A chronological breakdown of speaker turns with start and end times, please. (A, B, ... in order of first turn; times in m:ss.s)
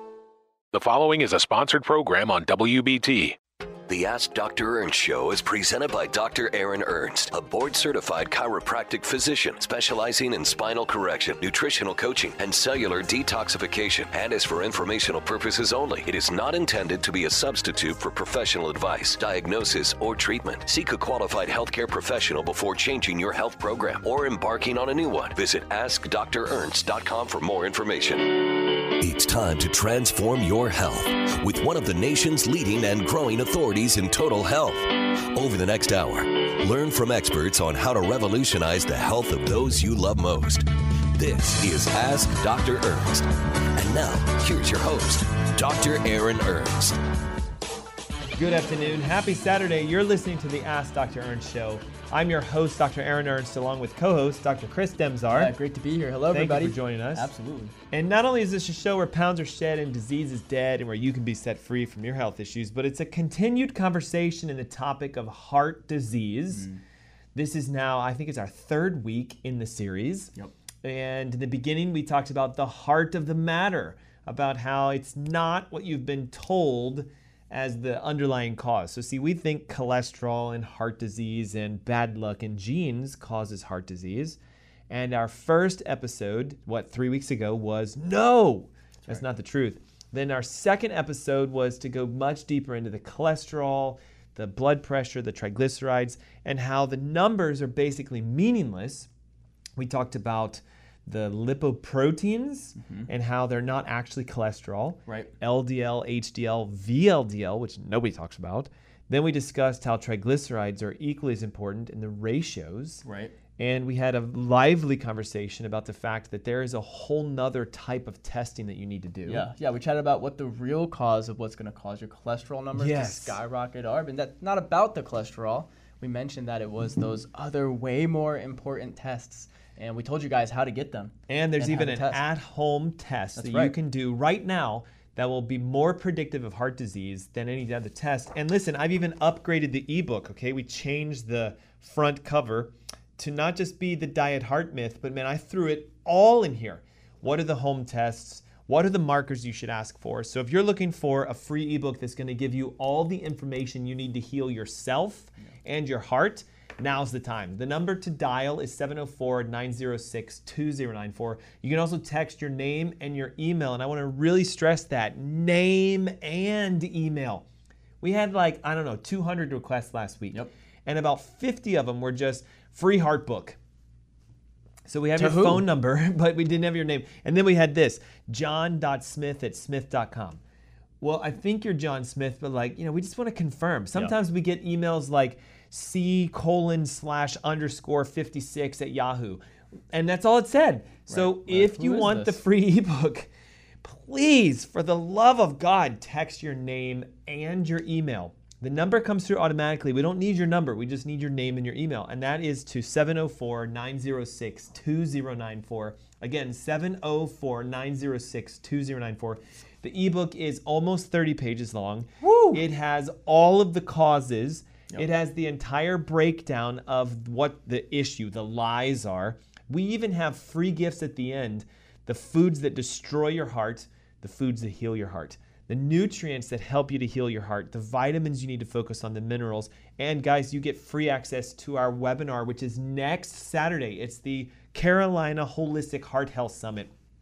0:00.7-0:03.4 A
0:03.9-0:47.0 B
0:48.4-0:55.5 C
0:55.3-0:57.7 D
0:56.3-0:57.3 C
0:57.9-1:06.7 C
1:06.5-1:06.8 D
1:07.3-1:24.4 C
1:24.9-1:39.1 C
1:39.8-1:53.0 C
1:42.8-1:43.1 D
1:53.0-1:53.3 D
1:53.6-1:59.5 C
1:59.3-2:12.2 D
2:02.7-2:03.4 C
2:11.3-2:47.4 C
2:13.4-2:13.8 D
2:48.0-2:53.6 C
2:54.8-3:00.4 C
2:55.2-2:55.6 D
3:01.0-3:09.4 C
3:09.9-3:13.3 C
3:11.1-3:12.4 D
3:13.8-3:56.9 C
3:32.2-3:32.6 D